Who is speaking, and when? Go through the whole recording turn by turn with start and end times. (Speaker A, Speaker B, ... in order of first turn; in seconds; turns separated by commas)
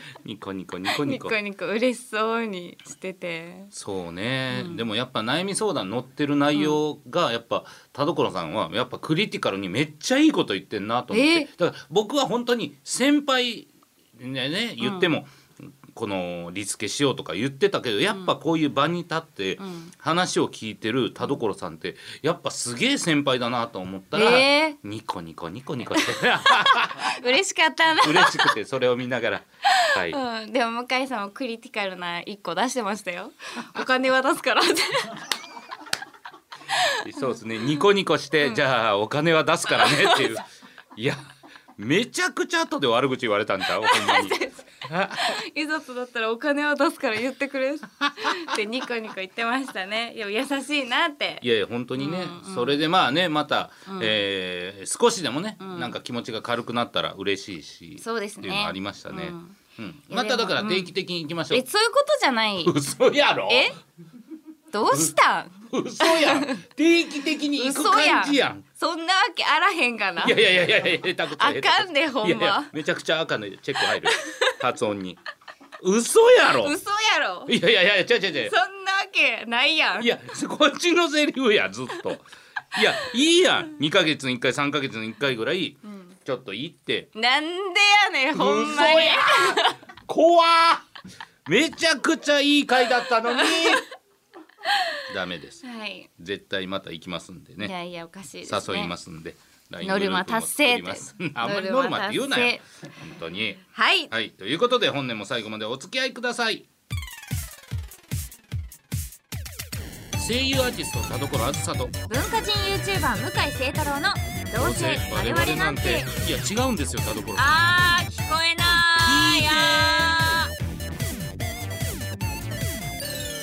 Speaker A: 0.2-1.4, Speaker B: 0.9-3.7, Speaker A: 3.7-27.1, Speaker B: 4.5-4.8, Speaker B: 11.1-11.5, Speaker B: 14.8-15.1, Speaker B: 19.6-19.9, Speaker B: 24.1-24.8, Speaker B: 26.4-28.5, Speaker A: 28.0-30.2, Speaker B: 29.7-35.2, Speaker A: 37.0-40.4, Speaker A: 41.0-41.2, Speaker A: 41.8-45.2, Speaker B: 43.8-52.8, Speaker A: 51.4-61.6, Speaker B: 53.9-54.2, Speaker B: 55.6-55.9, Speaker B: 58.0-59.6, Speaker B: 60.1-60.9, Speaker B: 61.5-62.7, Speaker A: 62.6-63.8, Speaker B: 63.5-63.8, Speaker B: 64.7-66.6, Speaker A: 65.7-68.6, Speaker B: 67.6-70.4, Speaker A: 70.2-75.2, Speaker B: 71.4-72.7, Speaker B: 74.2-74.5, Speaker A: 75.8-76.8, Speaker B: 76.6-77.5, Speaker A: 77.5-78.5, Speaker B: 78.5-80.1, Speaker A: 80.0-87.1, Speaker B: 85.9-86.1, Speaker B: 87.1-89.8, Speaker A: 88.3-90.8, Speaker A: 91.5-93.8, Speaker B: 94.7-95.0, Speaker A: 95.1-95.6, Speaker B: 95.6-96.1, Speaker A: 96.2-97.7, Speaker B: 97.6-98.9, Speaker A: 98.4-106.7, Speaker B: 99.8-102.6, Speaker B: 103.7-104.1, Speaker A: 110.1-112.0, Speaker B: 112.1-116.1, Speaker A: 114.6-118.0, Speaker B: 117.3-120.5, Speaker A: 119.0-120.2